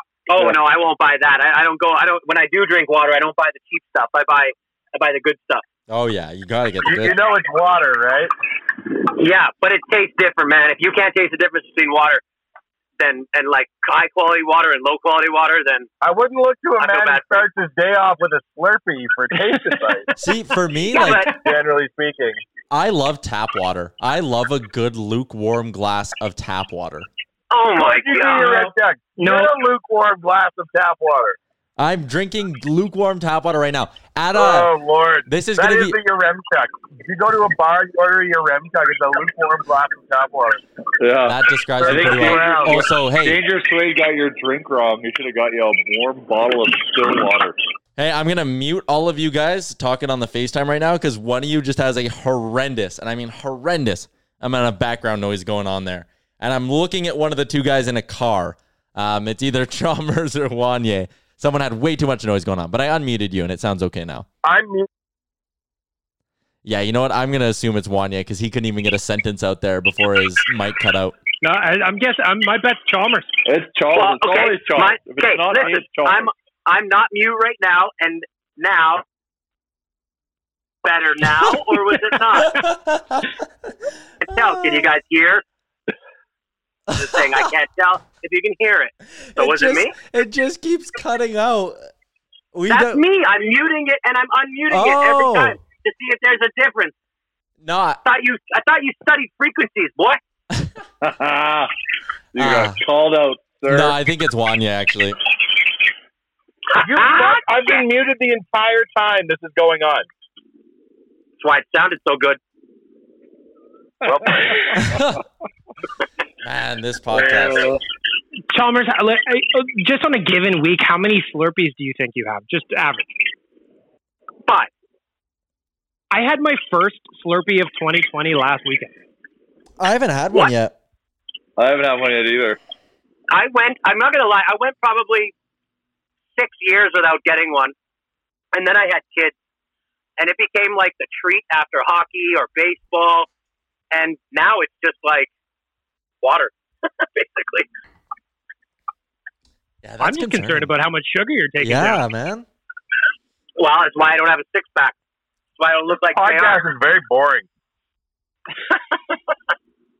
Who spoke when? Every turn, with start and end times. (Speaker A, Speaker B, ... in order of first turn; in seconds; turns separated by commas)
Speaker A: 0.3-5.6, Speaker B: 5.9-7.2, Speaker C: 6.8-8.3, Speaker A: 9.1-12.2, Speaker A: 13.0-15.9, Speaker C: 16.0-20.1, Speaker A: 16.8-17.5, Speaker B: 20.2-21.2, Speaker A: 20.9-21.4, Speaker C: 21.3-22.4, Speaker B: 22.7-27.1, Speaker A: 27.5-28.7, Speaker C: 27.7-31.4, Speaker B: 31.8-34.7, Speaker C: 34.3-40.6, Speaker B: 35.2-36.0, Speaker D: 41.0-47.6, Speaker B: 41.2-43.4, Speaker C: 41.8-42.9, Speaker B: 48.0-64.2, Speaker C: 64.4-64.9, Speaker B: 66.6-71.2, Speaker E: 71.4-73.4, Speaker D: 73.5-76.3, Speaker A: 73.9-79.0, Speaker A: 80.8-82.6, Speaker B: 82.4-83.4, Speaker A: 84.2-85.4, Speaker B: 84.3-84.9, Speaker B: 86.9-87.2, Speaker A: 86.9-90.0, Speaker B: 89.3-91.8, Speaker B: 92.5-93.0, Speaker A: 92.7-96.9, Speaker B: 94.7-95.6, Speaker B: 97.6-98.0, Speaker A: 98.0-100.2, Speaker D: 101.0-101.7, Speaker D: 102.3-104.0, Speaker B: 102.4-102.8, Speaker B: 103.7-105.2, Speaker A: 106.8-107.8, Speaker C: 106.8-110.1, Speaker A: 111.4-112.4, Speaker A: 114.0-114.7, Speaker B: 114.8-115.2, Speaker B: 116.4-117.7, Speaker D: 117.2-117.8, Speaker E: 118.5-123.1, Speaker E: 126.1-128.9, Speaker B: 129.8-130.7, Speaker D: 131.6-132.6, Speaker A: 133.3-135.3, Speaker A: 136.3-137.7, Speaker A: 138.5-139.3, Speaker A: 140.2-143.3, Speaker A: 143.9-145.3, Speaker A: 146.2-147.7, Speaker B: 149.8-150.7, Speaker E: 150.0-152.0, Speaker B: 151.6-152.4, Speaker A: 153.6-154.9, Speaker A: 155.6-156.6, Speaker C: 156.1-157.4, Speaker A: 158.7-159.1